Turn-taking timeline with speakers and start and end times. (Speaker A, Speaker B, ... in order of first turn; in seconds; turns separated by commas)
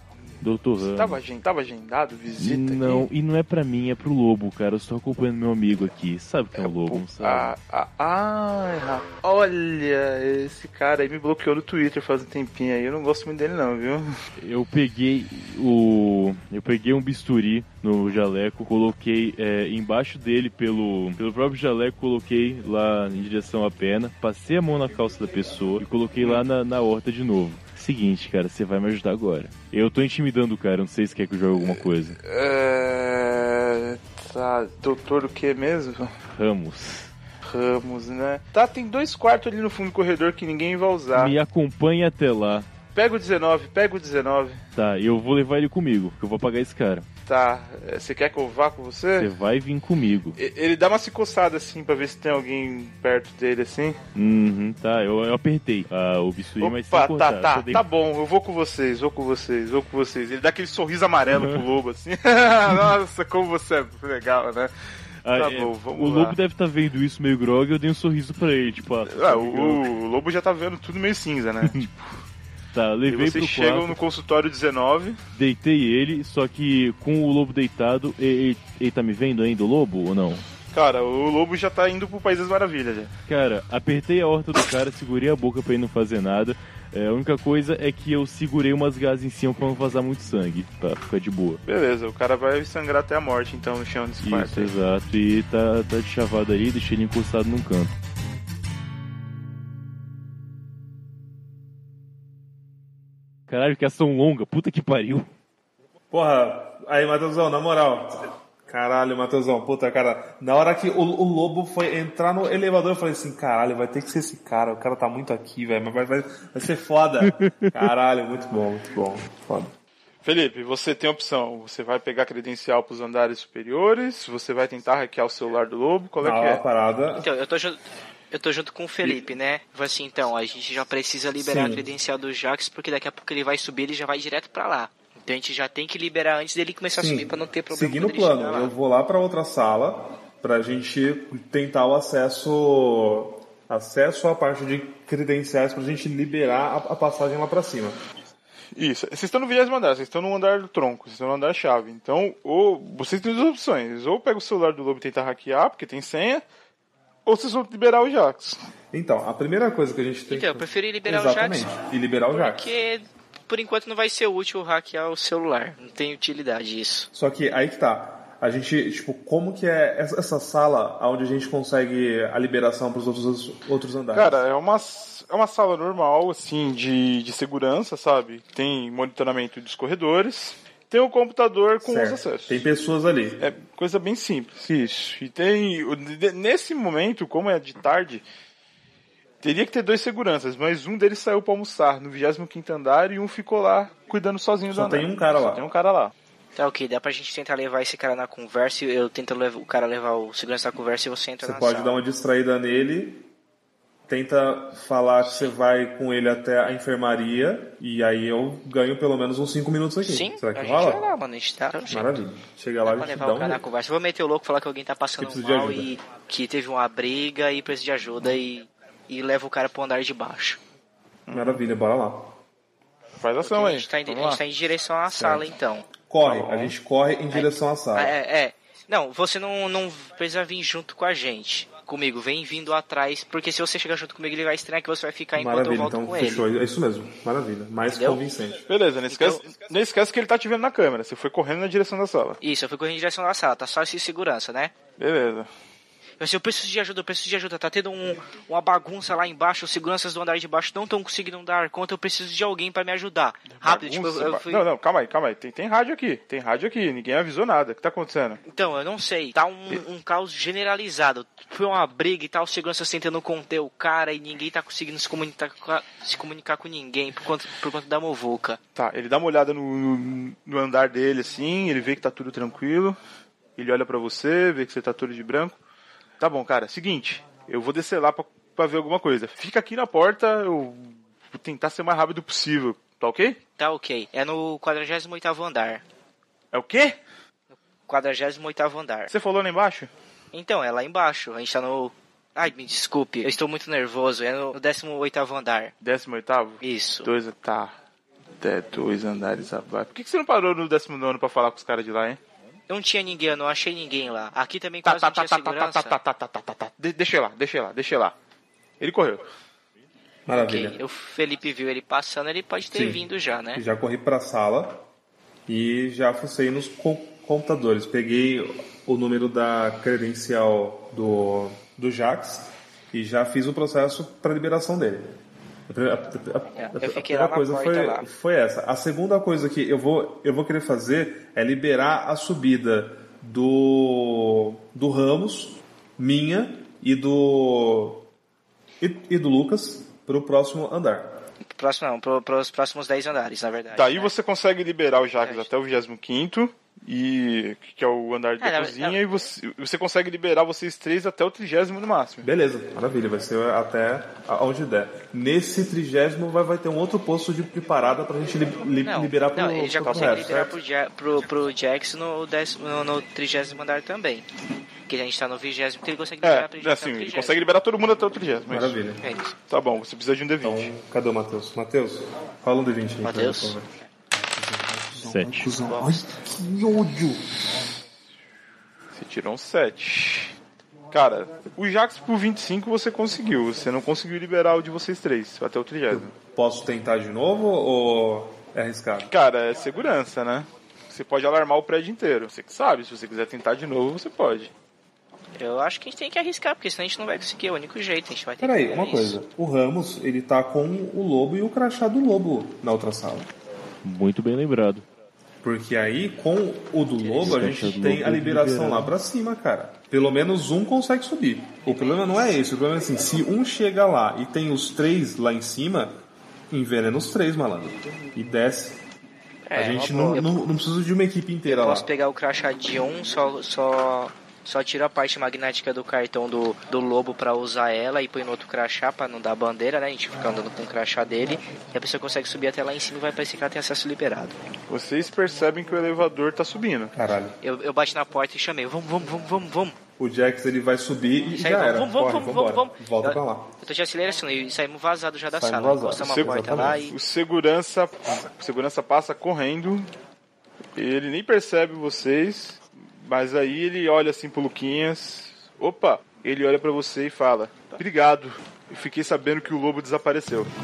Speaker A: 0.4-1.2, Speaker B: 0.8-3.1, Speaker A: 2.4-7.5, Speaker B: 6.6-14.1, Speaker A: 14.4-32.2, Speaker B: 26.2-26.5, Speaker B: 31.6-36.1, Speaker A: 36.3-37.1, Speaker B: 37.4-41.3, Speaker A: 41.1-42.7, Speaker B: 42.9-44.6, Speaker A: 44.8-47.1, Speaker B: 47.2-49.3, Speaker A: 49.2-50.4, Speaker B: 50.4-54.0, Speaker A: 54.1-57.8, Speaker B: 56.6-64.7, Speaker A: 61.2-61.7, Speaker A: 65.2-69.8, Speaker B: 65.3-66.4, Speaker B: 69.0-72.2, Speaker A: 72.7-74.0, Speaker B: 73.1-75.2, Speaker A: 75.3-80.5, Speaker B: 80.7-83.1, Speaker A: 83.3-91.6, Speaker B: 91.7-94.7, Speaker A: 94.2-97.9, Speaker A: 103.5-105.3, Speaker C: 106.1-119.7, Speaker A: 117.2-117.9, Speaker B: 120.2-126.6, Speaker C: 126.2-127.3, Speaker D: 127.1-127.8, Speaker D: 128.3-138.7, Speaker C: 131.3-131.8, Speaker C: 136.9-148.0, Speaker B: 148.8-156.4, Speaker B: 157.2-158.6, Speaker C: 158.9-162.8, Speaker D: 160.3-161.7, Speaker D: 162.3-167.1, Speaker C: 167.1-174.4, Speaker B: 174.1-182.6, Speaker C: 181.8-183.4, Speaker B: 183.4-188.2, Speaker B: 189.4-196.1, Speaker C: 194.7-195.6, Speaker D: 196.6-202.0, Speaker C: 201.4-203.3, Speaker C: 204.1-211.0, Speaker D: 205.3-205.5, Speaker D: 210.0-212.2, Speaker C: 211.9-213.6, Speaker D: 212.8-220.6, Speaker C: 215.2-215.9, Speaker B: 221.3-221.6, Speaker C: 221.3-222.3, Speaker B: 223.2-224.4, Speaker D: 223.4-225.9, Speaker C: 225.1-225.4, Speaker C: 226.1-228.2, Speaker B: 226.2-226.7, Speaker D: 227.3-236.4, Speaker C: 235.3-238.6, Speaker D: 237.9-238.2, Speaker B: 238.7-242.4, Speaker D: 239.1-239.4, Speaker D: 242.4-244.7, Speaker B: 245.0-245.5, Speaker D: 246.2-254.6, Speaker B: 253.6-258.4, Speaker D: 258.5-268.6, Speaker B: 268.8-273.0, Speaker B: 273.6-275.6, Speaker B: 276.2-283.4, Speaker D: 283.6-285.8, Speaker B: 286.5-287.0, Speaker D: 287.5-289.1, Speaker B: 289.1-289.9, Speaker D: 290.3-295.7, Speaker B: 295.8-297.8, Speaker D: 296.6-297.1, Speaker B: 298.4-302.2, Speaker D: 302.7-305.9, Speaker B: 304.8-308.1, Speaker B: 308.8-309.2, Speaker C: 310.3-310.8, Speaker D: 310.3-313.6, Speaker C: 312.7-313.0, Speaker C: 313.5-314.8, Speaker C: 315.5-325.1, Speaker C: 325.7-338.1, Speaker D: 326.6-328.0, Speaker C: 338.8-341.2, Speaker D: 341.4-344.1, Speaker B: 343.7-352.3, Speaker D: 345.2-345.5, Speaker D: 348.4-349.0, Speaker C: 352.2-360.6, Speaker D: 358.8-364.2, Speaker D: 364.9-367.4, Speaker B: 366.2-368.8, Speaker C: 368.5-369.0, Speaker D: 369.0-369.3, Speaker B: 369.5-370.7, Speaker C: 370.4-377.2, Speaker D: 373.0-373.6, Speaker A: 375.0-375.5, Speaker D: 375.7-375.9, Speaker B: 378.9-380.3, Speaker B: 380.9-386.1, Speaker C: 385.9-389.1, Speaker B: 389.0-394.5, Speaker D: 395.4-399.1, Speaker C: 398.4-403.3, Speaker A: 403.8-404.8, Speaker C: 405.4-416.0, Speaker D: 407.0-407.6, Speaker A: 407.2-408.9, Speaker D: 411.6-412.4, Speaker C: 416.5-418.8, Speaker D: 419.4-420.3, Speaker C: 419.5-421.9, Speaker D: 421.4-434.4, Speaker B: 434.7-436.9, Speaker C: 436.9-437.4, Speaker D: 437.4-439.8, Speaker C: 440.0-443.6, Speaker D: 441.3-446.9, Speaker C: 445.3-446.8, Speaker B: 446.0-449.9, Speaker B: 450.8-460.5